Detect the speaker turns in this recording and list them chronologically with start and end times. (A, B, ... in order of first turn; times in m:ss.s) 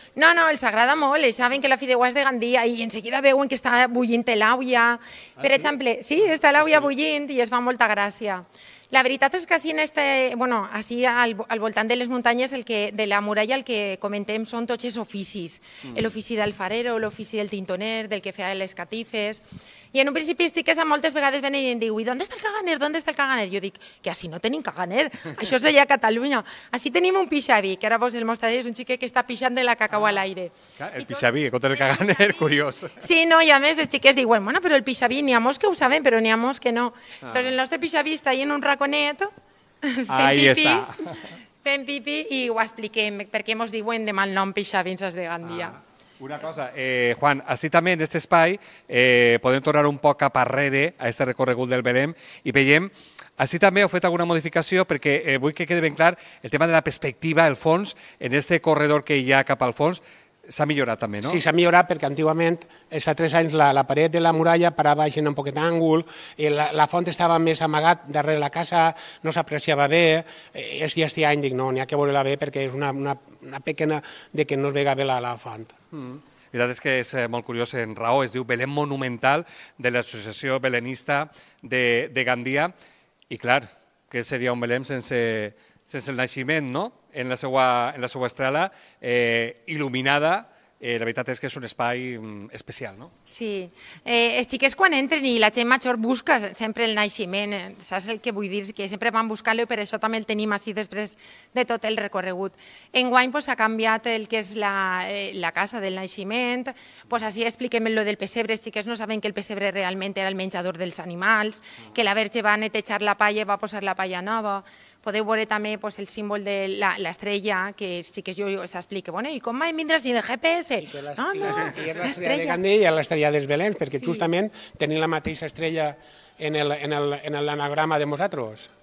0:00.2-0:31.2 A
0:05.4-0:05.7 B
0:30.8-0:33.0 B
0:31.8-0:32.2 A
0:33.0-0:41.1 A
0:37.2-0:37.5 B
0:40.1-0:41.2 B
0:41.6-0:45.8 A
0:46.2-1:01.4 B
1:01.2-1:15.8 C
1:15.9-1:22.7 B
1:23.3-1:33.1 B
1:33.3-2:02.6 A
2:00.8-2:08.7 C
2:04.0-2:04.2 A